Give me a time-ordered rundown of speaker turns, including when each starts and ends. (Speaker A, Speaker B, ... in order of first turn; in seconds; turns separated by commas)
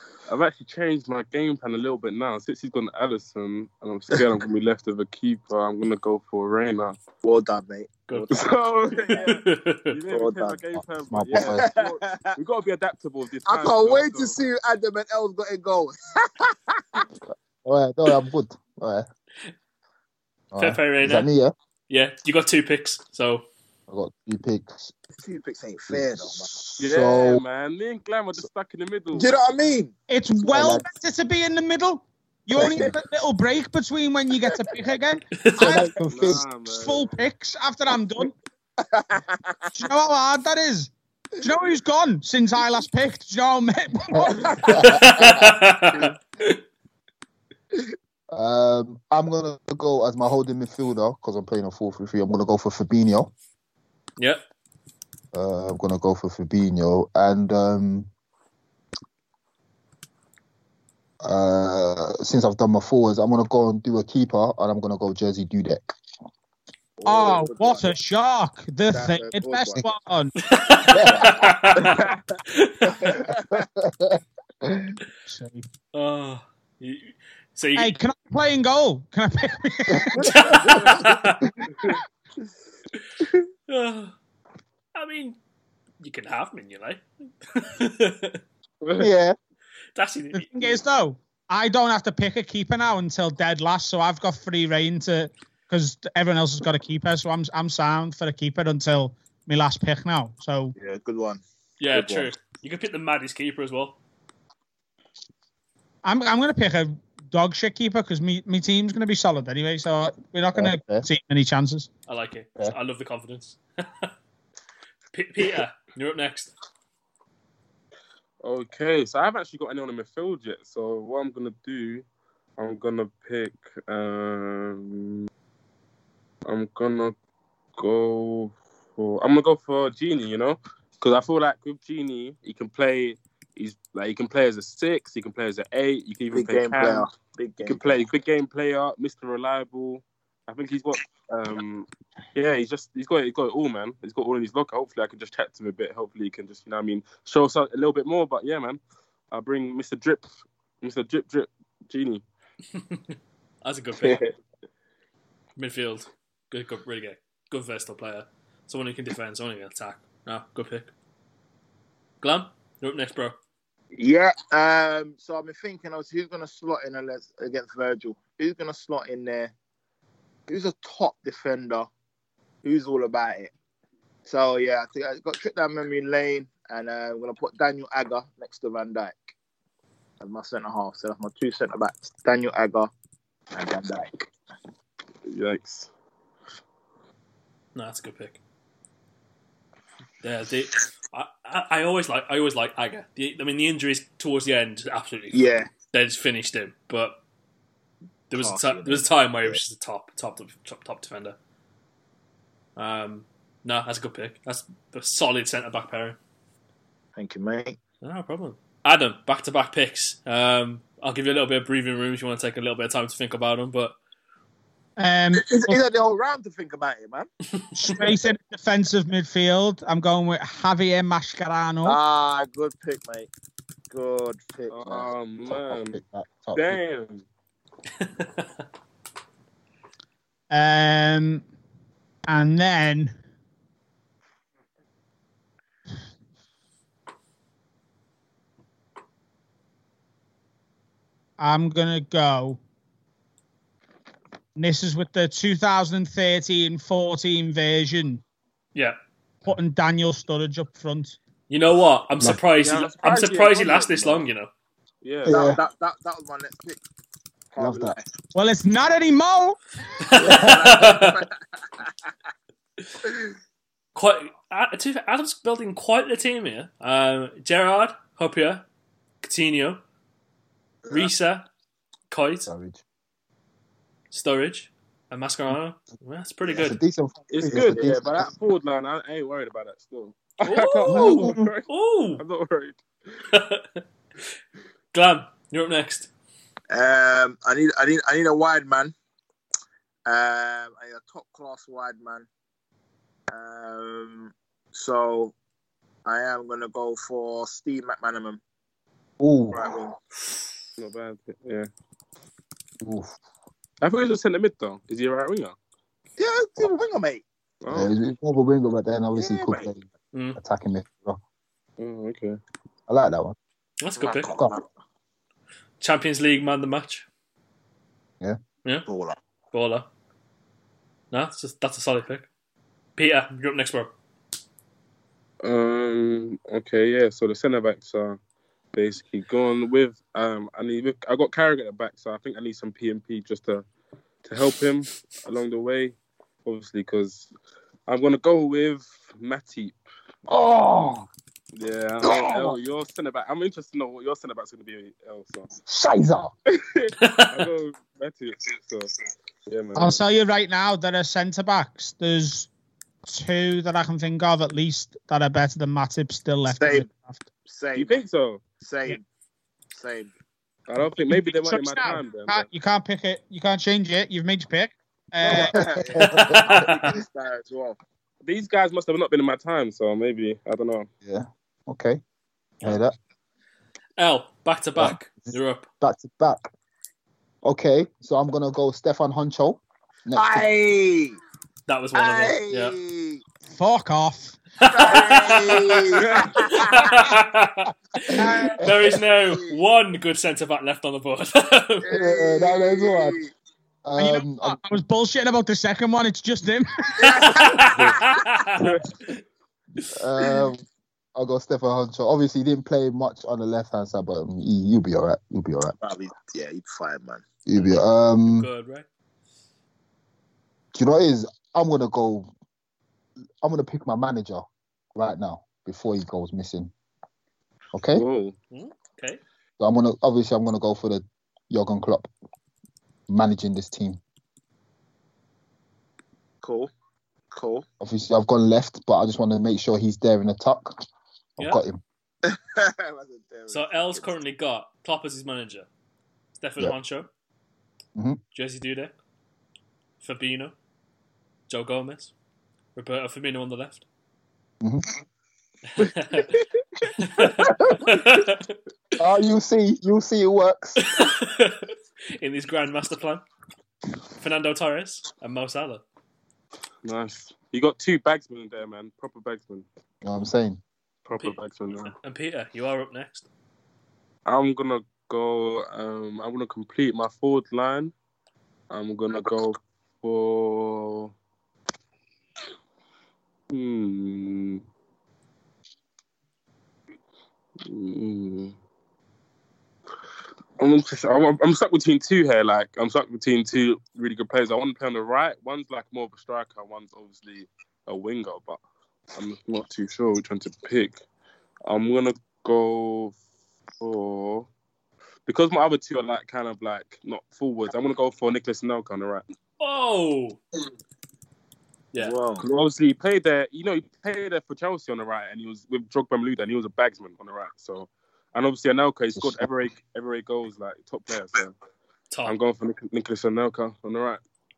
Speaker A: 0.3-7.0, Speaker B: 7.2-9.3, Speaker C: 8.1-8.4, Speaker A: 8.1-9.4, Speaker C: 9.2-10.0, Speaker A: 9.9-14.3, Speaker B: 10.1-10.6, Speaker D: 10.7-11.7, Speaker B: 11.3-12.4, Speaker B: 13.4-17.1, Speaker D: 17.3-19.1, Speaker D: 20.5-21.5, Speaker C: 20.6-21.3, Speaker C: 21.9-23.5, Speaker D: 23.9-24.9, Speaker B: 25.1-26.5, Speaker D: 25.9-27.4, Speaker A: 26.8-29.3, Speaker B: 29.1-29.9, Speaker E: 30.1-35.9, Speaker D: 30.5-30.9, Speaker D: 32.5-32.9, Speaker B: 32.6-32.9, Speaker C: 35.4-35.8, Speaker D: 35.6-36.4, Speaker A: 36.0-37.1, Speaker E: 36.6-38.3, Speaker B: 38.8-39.7, Speaker E: 39.8-44.5, Speaker D: 44.1-45.4, Speaker C: 45.0-46.6, Speaker D: 48.3-53.3, Speaker D: 55.3-58.1, Speaker D: 61.2-65.9, Speaker B: 67.0-67.9, Speaker E: 67.0-70.3, Speaker B: 68.9-69.8, Speaker C: 70.5-73.2, Speaker D: 70.9-71.3, Speaker B: 71.7-73.6, Speaker D: 73.3-74.9, Speaker E: 75.2-75.6, Speaker C: 75.9-78.0, Speaker E: 77.8-80.6, Speaker D: 79.9-80.2, Speaker C: 80.2-81.4, Speaker C: 83.7-84.1, Speaker C: 85.0-85.4, Speaker C: 86.0-88.4, Speaker D: 89.0-89.3, Speaker C: 90.0-90.7, Speaker E: 90.3-100.7, Speaker B: 100.8-102.3, Speaker C: 101.8-104.0, Speaker E: 106.0-111.9, Speaker D: 110.5-111.1, Speaker C: 112.1-114.1, Speaker C: 115.1-116.5, Speaker A: 118.4-122.0, Speaker A: 122.6-125.3, Speaker A: 126.5-127.1, Speaker A: 127.8-137.1, Speaker B: 136.3-138.1, Speaker A: 137.6-152.2, Speaker C: 152.7-154.2, Speaker B: 154.0-154.3, Speaker C: 155.6-160.9, Speaker C: 162.2-163.3, Speaker B: 163.9-169.5, Speaker B: 170.5-171.9, Speaker B: 172.6-173.5, Speaker B: 174.2-179.3, Speaker B: 180.2-182.9, Speaker B: 183.5-184.3, Speaker A: 185.3-185.9, Speaker C: 187.7-188.4, Speaker C: 190.2-197.2, Speaker B: 195.3-195.7, Speaker C: 198.3-201.3, Speaker B: 198.4-199.6, Speaker C: 202.8-206.2, Speaker B: 207.2-207.8, Speaker C: 208.0-213.9, Speaker E: 215.0-215.8, Speaker B: 215.3-217.3, Speaker E: 217.7-222.0, Speaker B: 221.8-223.3, Speaker B: 223.9-225.1, Speaker A: 224.7-226.0, Speaker D: 225.4-226.8, Speaker A: 226.5-227.2, Speaker C: 228.2-228.4, Speaker E: 230.5-231.4, Speaker E: 232.3-233.1, Speaker E: 241.4-242.6, Speaker E: 244.6-248.2, Speaker E: 249.4-251.2, Speaker C: 251.5-254.5, Speaker A: 252.6-254.2, Speaker A: 255.0-255.3, Speaker D: 255.2-255.6, Speaker B: 255.3-256.8, Speaker B: 257.5-258.1, Speaker D: 257.6-257.9, Speaker E: 258.3-259.6, Speaker C: 260.1-261.1, Speaker B: 260.2-261.9, Speaker C: 263.9-268.6, Speaker C: 269.2-269.8, Speaker C: 270.9-271.5, Speaker C: 272.1-272.5, Speaker D: 272.4-272.8, Speaker C: 274.1-276.8, Speaker D: 276.5-278.1, Speaker A: 277.3-281.7, Speaker B: 277.4-278.1, Speaker C: 280.4-282.2, Speaker D: 280.9-281.5, Speaker A: 282.2-282.8, Speaker C: 283.3-283.8, Speaker C: 284.9-286.1, Speaker B: 286.7-288.9, Speaker B: 290.1-292.3, Speaker B: 293.3-295.3, Speaker B: 296.0-298.4, Speaker D: 299.2-299.6, Speaker B: 299.5-299.9, Speaker A: 300.8-301.7, Speaker D: 302.8-303.1, Speaker A: 303.8-305.6, Speaker B: 306.2-307.2, Speaker A: 307.6-307.9, Speaker D: 307.7-311.2, Speaker B: 309.1-309.7, Speaker C: 310.1-310.4, Speaker A: 311.8-312.4, Speaker D: 312.9-313.4, Speaker C: 313.8-314.4, Speaker B: 314.0-314.6, Speaker D: 314.1-314.5, Speaker C: 315.8-317.1, Speaker B: 318.9-319.2, Speaker C: 319.5-319.9, Speaker C: 321.1-322.3, Speaker C: 323.0-323.9, Speaker A: 325.4-328.2, Speaker A: 328.7-333.6, Speaker A: 334.2-337.3, Speaker A: 337.9-339.8, Speaker D: 340.3-341.1, Speaker A: 341.5-345.5, Speaker D: 342.0-342.6, Speaker D: 345.6-346.3, Speaker A: 346.5-348.9, Speaker C: 347.0-347.5, Speaker A: 349.5-350.0, Speaker E: 349.8-352.5, Speaker E: 353.1-357.2, Speaker B: 356.6-356.9, Speaker B: 357.5-358.0, Speaker A: 357.7-358.4, Speaker B: 358.6-359.0, Speaker B: 359.7-360.1, Speaker A: 360.7-362.4, Speaker E: 361.1-365.6, Speaker B: 365.2-367.8, Speaker D: 365.3-366.7, Speaker C: 366.1-366.8, Speaker A: 368.2-370.9, Speaker D: 371.0-372.0, Speaker D: 372.6-372.9, Speaker C: 374.0-375.7, Speaker D: 374.8-376.5, Speaker D: 377.4-380.5, Speaker B: 380.1-381.2, Speaker C: 381.7-382.7, Speaker B: 381.9-383.2, Speaker E: 383.5-384.4, Speaker C: 384.6-391.9, Speaker B: 384.6-387.1, Speaker A: 386.0-386.3, Speaker E: 388.1-388.6, Speaker B: 389.2-389.6, Speaker B: 391.8-393.3, Speaker D: 391.9-393.2, Speaker D: 393.8-394.6, Speaker E: 394.0-397.2, Speaker B: 397.0-398.2, Speaker C: 397.4-398.5, Speaker A: 398.6-398.8, Speaker D: 399.9-400.6, Speaker D: 401.1-405.8, Speaker B: 405.8-407.2, Speaker D: 407.4-408.5, Speaker C: 407.6-408.9, Speaker D: 410.7-412.3, Speaker D: 413.4-416.7, Speaker D: 417.7-418.0, Speaker A: 417.9-418.3, Speaker C: 418.5-419.2, Speaker D: 419.6-422.1, Speaker D: 423.1-424.0, Speaker B: 426.4-426.7, Speaker B: 427.3-427.6, Speaker D: 427.8-430.8, Speaker D: 431.4-431.8, Speaker B: 432.2-434.1, Speaker C: 433.5-435.7, Speaker C: 436.4-437.1, Speaker C: 438.3-438.9, Speaker C: 440.0-440.5, Speaker C: 441.5-442.1, Speaker C: 442.8-443.8, Speaker C: 445.7-446.3, Speaker C: 447.1-448.5, Speaker D: 449.0-450.8, Speaker C: 450.8-453.2, Speaker C: 454.1-455.8, Speaker A: 456.8-459.6, Speaker D: 460.0-460.6, Speaker A: 461.1-461.9, Speaker C: 461.9-463.3, Speaker A: 464.2-467.9, Speaker A: 468.7-471.1, Speaker A: 473.5-474.6, Speaker A: 477.6-478.6, Speaker A: 480.6-488.6, Speaker A: 489.1-491.0, Speaker A: 491.6-493.1, Speaker A: 493.8-494.5, Speaker A: 495.2-499.3, Speaker C: 499.6-500.4, Speaker B: 502.0-502.4, Speaker A: 502.4-511.5, Speaker D: 509.1-509.5, Speaker A: 512.2-514.2